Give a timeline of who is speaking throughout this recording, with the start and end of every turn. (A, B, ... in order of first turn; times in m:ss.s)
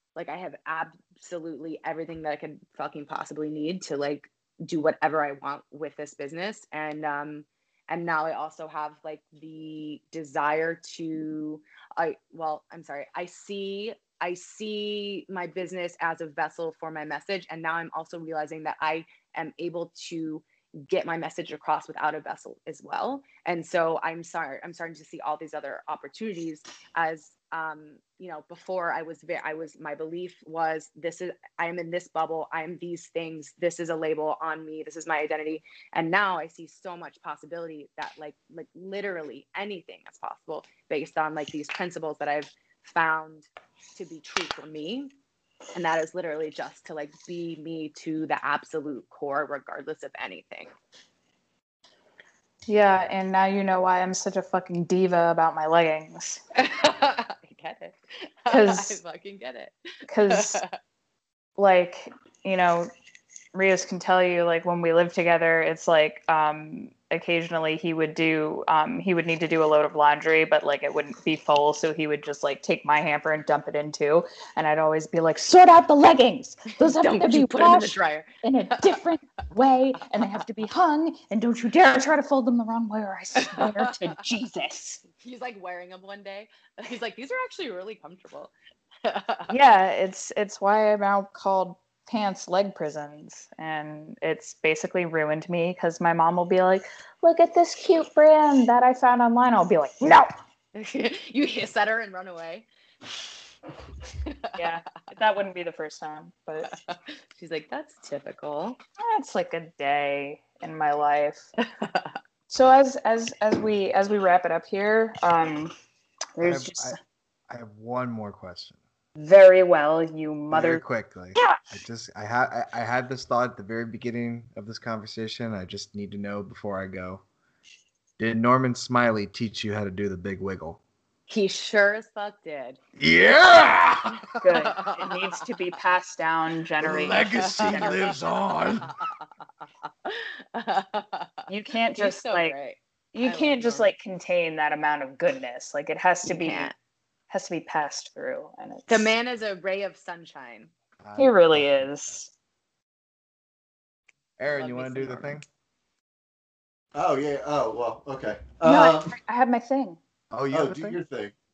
0:00.2-0:45.1 A
0:45.7-0:50.7 A
0:52.7-0:56.4 B
0:56.6-0:59.8 A
0:58.5-0:59.0 B
1:00.1-1:00.6 B
1:00.3-1:00.7 A
1:01.6-1:02.9 B
1:03.5-1:25.0 B
1:16.8-1:18.9 A
1:23.4-1:23.9 A
1:25.2-1:28.5 A
1:29.0-1:29.5 A
1:29.5-1:40.3 B
1:40.8-1:42.7 A
1:44.3-1:44.5 A
1:44.6-1:46.7 B
1:46.7-1:48.8 A
1:49.0-1:51.5 B
1:51.8-1:52.2 A
1:52.5-1:55.7 B
1:56.4-1:57.0 B
1:56.4-1:57.0 C
1:57.5-1:58.8 C
1:59.2-2:00.8 B
2:00.5-2:07.2 C
2:08.2-2:10.8 C
2:11.3-2:12.8 A
2:13.0-2:14.2 C
2:14.2-2:15.2 A
2:14.4-2:18.2 B
2:16.8-2:19.0 C
2:17.4-2:18.1 A
2:20.0-2:23.9 A
2:21.5-2:22.5 B
2:23.1-2:26.7 B
2:26.4-2:26.7 A
2:27.3-2:29.1 B
2:28.9-2:30.7 A
2:31.0-2:31.9 C
2:31.2-2:32.3 B
2:34.4-2:35.4 C
2:34.5-2:35.4 A
2:37.0-2:39.1 D
2:38.6-2:40.0 B
2:40.3-2:41.0 C
2:40.5-2:41.4 D